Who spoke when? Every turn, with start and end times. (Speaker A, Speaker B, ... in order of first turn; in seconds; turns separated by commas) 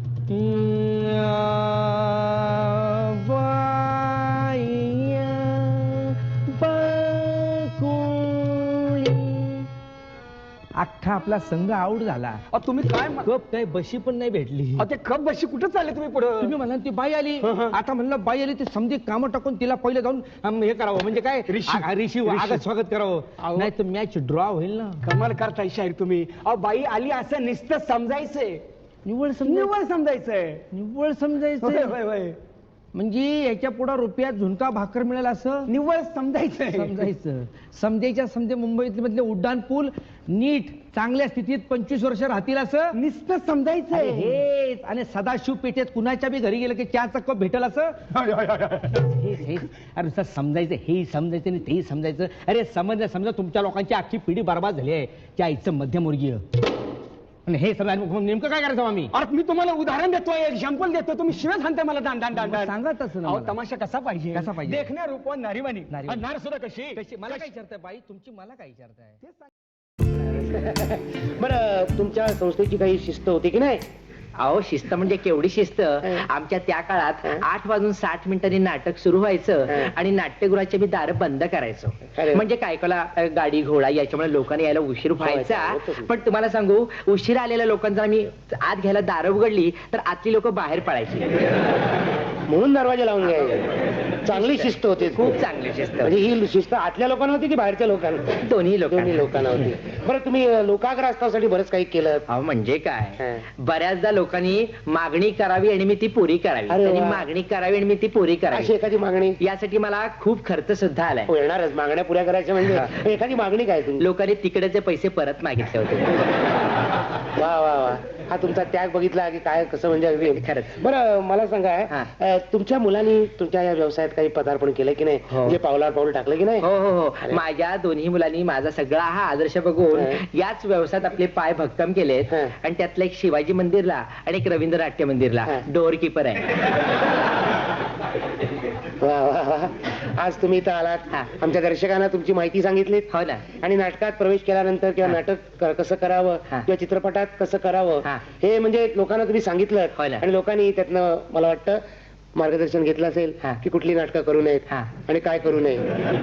Speaker A: 0.3-9.7, Speaker A: 10.8-12.4, Speaker B: 12.5-13.3, Speaker A: 13.2-14.9, Speaker B: 14.8-16.5, Speaker A: 16.4-25.0, Speaker B: 17.4-17.8, Speaker B: 21.5-22.6, Speaker B: 23.4-23.7, Speaker B: 25.0-28.6, Speaker A: 29.1-29.7, Speaker B: 29.4-30.6, Speaker A: 30.7-32.0, Speaker B: 31.6-32.4, Speaker A: 32.9-35.7, Speaker B: 35.7-37.1, Speaker A: 36.7-43.0, Speaker B: 43.0-44.4, Speaker A: 43.9-48.0, Speaker B: 48.1-48.9, Speaker A: 48.8-56.4, Speaker A: 57.5-59.1, Speaker B: 59.1-67.5, Speaker A: 62.3-63.6, Speaker A: 64.3-64.9, Speaker A: 65.9-66.2, Speaker A: 66.9-69.2, Speaker B: 69.2-69.5, Speaker C: 70.1-73.8, Speaker D: 74.4-91.4, Speaker C: 82.2-82.5, Speaker C: 85.2-86.1, Speaker C: 92.5-93.7, Speaker C: 94.2-95.4, Speaker D: 94.3-96.2, Speaker C: 96.0-102.3, Speaker D: 98.4-99.7, Speaker D: 102.3-108.7, Speaker C: 106.7-107.3, Speaker C: 108.5-109.4, Speaker D: 109.4-111.3, Speaker C: 111.3-114.1, Speaker D: 112.7-113.0, Speaker D: 114.0-116.3, Speaker C: 117.4-126.7, Speaker D: 120.3-120.8, Speaker D: 125.3-125.6, Speaker D: 126.6-136.7, Speaker C: 129.9-130.2, Speaker C: 139.0-151.8, Speaker D: 143.1-143.4, Speaker D: 150.0-150.2, Speaker C: 152.4-156.0